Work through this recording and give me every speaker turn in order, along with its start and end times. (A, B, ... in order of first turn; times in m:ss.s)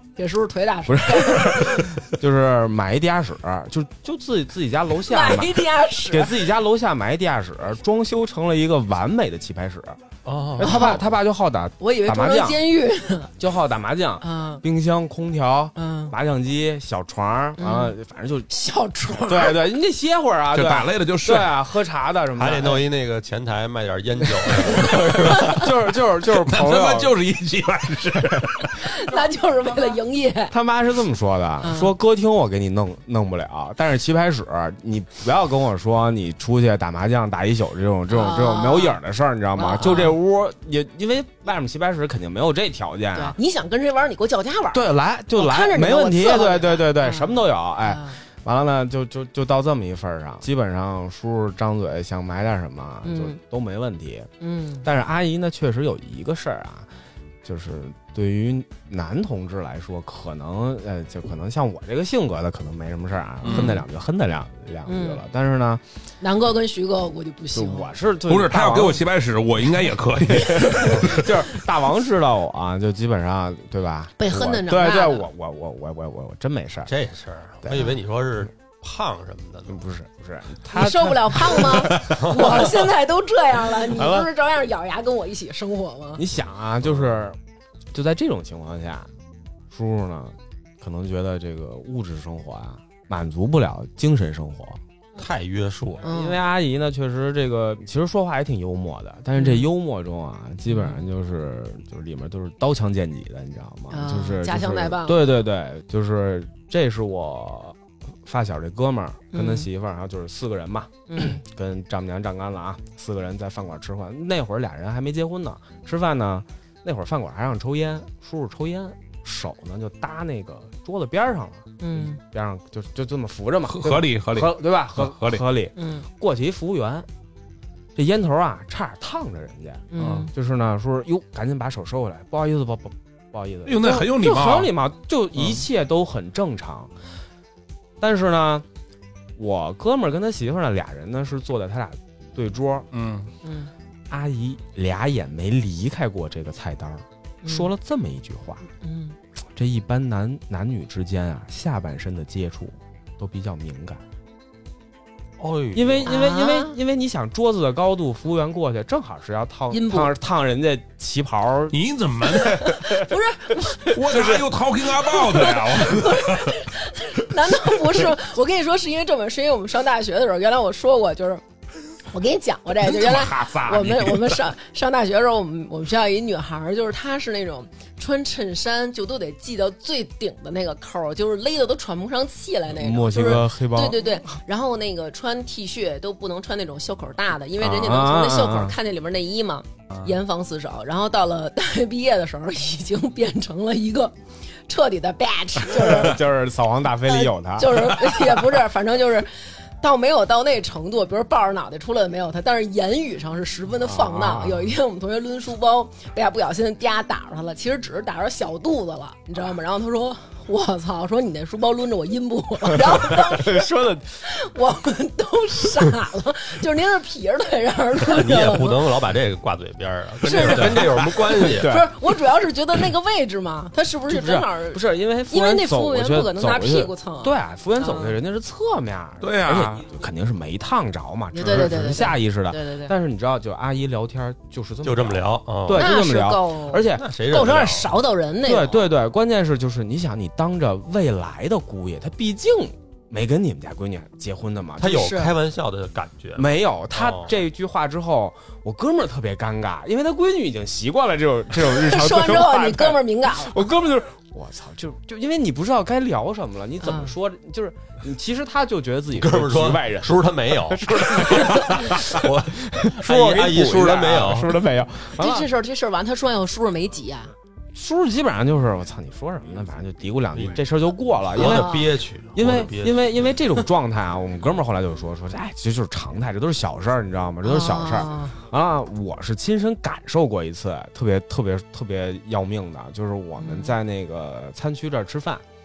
0:00.2-0:02.0 A
0:00.9-0:10.0 B
0:05.1-0:06.5 A
0:10.2-0:10.9 C
0:10.6-0:12.6 B
0:10.6-0:11.0 A
0:11.8-0:13.3 A
0:13.4-0:18.5 B
0:14.2-0:14.6 A
0:15.8-0:16.1 A
0:17.6-0:18.0 A
0:18.5-0:19.6 A
0:19.1-0:22.8 B
0:20.5-0:21.5 D
0:22.4-0:25.6 C
0:24.6-0:27.1 B
0:24.9-0:25.7 A
0:26.2-0:28.8 D
0:28.8-0:30.5 A
0:30.5-0:43.4 B
0:31.6-0:31.9 A
0:38.1-0:39.0 A
0:39.6-0:40.2 A
0:43.1-0:48.2 A
0:44.7-0:54.3 B
0:53.0-0:53.4 A
0:54.4-0:54.9 A
0:54.8-0:56.9 B
0:57.4-1:05.8 B
1:03.4-1:03.8 D
1:03.5-1:03.8 A
1:04.9-1:05.2 A
1:06.2-1:08.0 A
1:07.5-1:09.0 B
1:08.3-1:11.3 D
1:10.5-1:16.9 B
1:14.2-1:15.3 A
1:16.9-1:19.9 C
1:17.6-1:18.0 B
1:19.7-1:22.9 B
1:20.7-1:26.2 A
1:22.0-1:22.6 C
1:23.8-1:24.3 B
1:26.2-1:27.4 B
1:27.9-1:29.1 B
1:29.7-1:34.8 B
1:35.2-1:36.1 C
1:36.0-1:36.4 A
1:36.0-2:07.1 B
1:39.4-1:39.7 A
1:40.7-1:41.0 A
1:43.9-1:45.3 A
1:49.3-1:49.7 A
1:51.1-1:51.4 A
2:01.8-2:02.2 A
2:03.7-2:05.4 D
2:05.8-2:06.1 A
2:08.0-2:16.9 B
2:09.9-2:10.3 A
2:10.0-2:10.3 D
2:13.7-2:14.7 D
2:18.0-2:18.6 B
2:19.4-2:22.9 B
2:22.9-2:23.3 D
2:23.4-2:23.7 A
2:24.1-2:28.6 B
2:27.4-2:27.7 A
2:28.8-2:29.2 A
2:29.6-2:34.0 B
2:35.4-2:36.1 C
2:35.7-2:41.8 B
2:36.1-2:36.8 A
2:39.7-2:40.1 A
2:41.7-2:42.8 D
2:42.3-2:43.9 A
2:42.6-2:43.1 B
2:43.8-2:46.6 D
2:43.9-2:44.5 B
2:45.0-2:51.4 A
2:52.1-3:14.1 A
2:52.8-2:54.4 D
3:02.7-3:04.0 B
3:07.6-3:08.8 B
3:14.7-3:16.2 A
3:15.7-3:18.5 B
3:17.1-3:33.7 A
3:23.8-3:24.7 B
3:32.7-3:34.2 B
3:34.2-3:38.9 A
3:38.0-3:41.7 C
3:40.2-3:48.2 A
3:40.6-3:41.9 B
3:44.1-3:57.1 B
3:49.2-3:49.8 D
3:51.3-3:52.9 A
3:54.8-3:55.9 C
3:55.7-3:58.9 A
3:56.9-3:58.0 C
3:58.4-4:05.2 B
4:04.8-4:07.4 C
4:04.9-4:05.4 A
4:06.4-4:25.5 B
4:11.6-4:13.7 A
4:16.8-4:17.1 A
4:19.1-4:24.6 C
4:25.2-4:27.3 A
4:27.8-4:31.8 B
4:30.3-4:30.6 C
4:31.3-4:33.2 C
4:31.4-4:32.0 A
4:32.3-4:45.4 B
4:37.4-4:38.4 A
4:43.4-4:43.8 A